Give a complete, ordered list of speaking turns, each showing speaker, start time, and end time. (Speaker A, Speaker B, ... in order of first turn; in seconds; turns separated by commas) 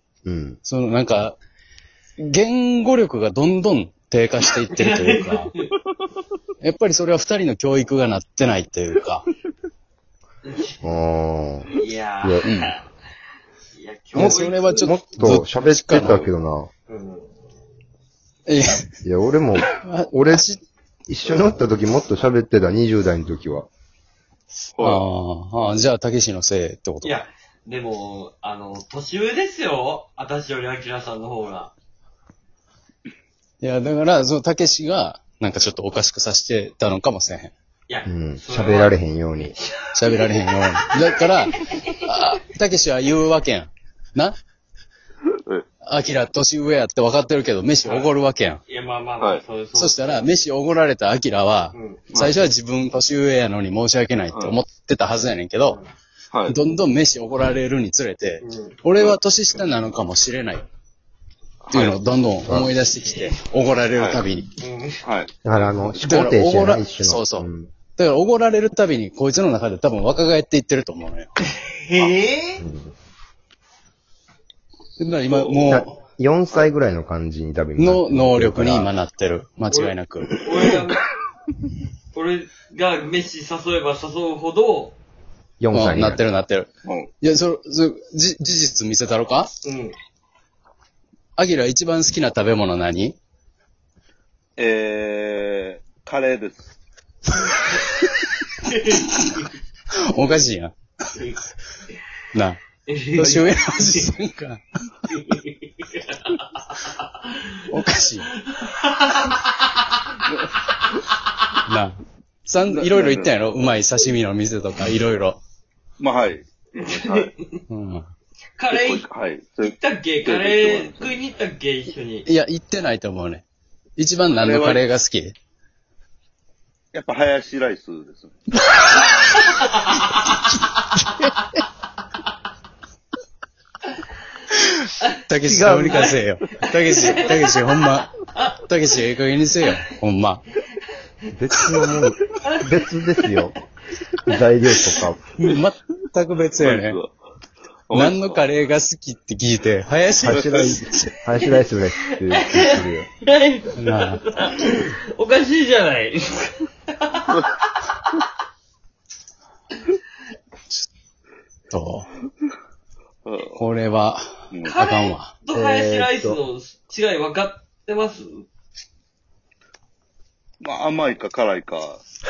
Speaker A: 0.2-0.6, Speaker B: 0.6-1.4, Speaker B: 2.2-5.5, Speaker C: 4.7-5.6, Speaker B: 6.6-9.3, Speaker C: 10.4-10.8, Speaker A: 10.8-12.4, Speaker C: 11.8-12.8, Speaker B: 12.4-12.7, Speaker C: 13.7-14.9, Speaker B: 14.1-16.3, Speaker A: 14.1-16.7, Speaker C: 16.9-17.3, Speaker B: 18.5-18.9, Speaker A: 19.0-20.4, Speaker B: 19.6-20.6, Speaker A: 21.1-23.7, Speaker D: 24.8-25.0, Speaker B: 24.8-27.2, Speaker C: 27.0-31.7, Speaker B: 33.6-37.5, Speaker C: 37.9-39.0, Speaker A: 38.0-39.5, Speaker B: 39.9-44.4, Speaker B: 45.8-48.6, Speaker C: 48.7-50.2, Speaker B: 49.8-55.8, Speaker C: 51.7-52.1, Speaker D: 52.1-52.4, Speaker B: 56.5-60.6, Speaker C: 58.4-58.8, Speaker D: 61.6-62.0, Speaker B: 61.7-64.5, Speaker A: 62.5-62.7, Speaker D: 64.0-64.2, Speaker C: 64.6-65.0, Speaker D: 65.0-65.3, Speaker A: 65.4-67.7, Speaker B: 66.0-71.3, Speaker C: 71.5-72.6, Speaker A: 72.6-72.9, Speaker B: 75.0-76.0, Speaker D: 75.3-75.7, Speaker A: 75.7-78.9, Speaker B: 77.8-80.4, Speaker C: 79.7-81.0, Speaker C: 82.1-85.0, Speaker A: 85.6-86.2, Speaker B: 85.7-86.7, Speaker D: 86.8-87.1, Speaker B: 87.2-89.5, Speaker C: 89.6-90.0, Speaker B: 91.4-93.2, Speaker D: 94.6-96.7, Speaker C: 98.6-99.1, Speaker B: 99.9-100.8, Speaker B: 102.3-102.6, Speaker C: 102.9-104.0, Speaker B: 103.2-104.6, Speaker C: 105.1-106.4, Speaker C: 106.9-107.4, Speaker B: 107.7-108.3, Speaker C: 108.2-109.8, Speaker B: 111.7-115.4, Speaker D: 112.7-113.4, Speaker D: 116.0-117.3, Speaker C: 116.7-117.5, Speaker B: 117.7-118.0, Speaker C: 118.6-119.1, Speaker D: 118.7-121.2, Speaker C: 119.6-122.2, Speaker B: 122.2-123.4, Speaker B: 124.0-125.3, Speaker D: 124.3-124.8, Speaker D: 126.9-128.4, Speaker C: 129.3-130.3, Speaker B: 134.5-140.4, Speaker A: 135.4-136.1, Speaker C: 137.1-137.4, Speaker A: 141.3-143.6, Speaker A: 144.2-145.2, Speaker B: 145.4-147.0, Speaker D: 146.6-147.2, Speaker D: 147.9-148.4, Speaker B: 147.9-151.2, Speaker A: 150.2-153.1, Speaker C: 152.3-157.3, Speaker B: 153.8-154.2, Speaker B: 161.7-162.1, Speaker D: 163.2-163.6, Speaker B: 163.5-165.3, Speaker C: 164.7-168.4, Speaker A: 165.5-166.4, Speaker D: 170.6-172.0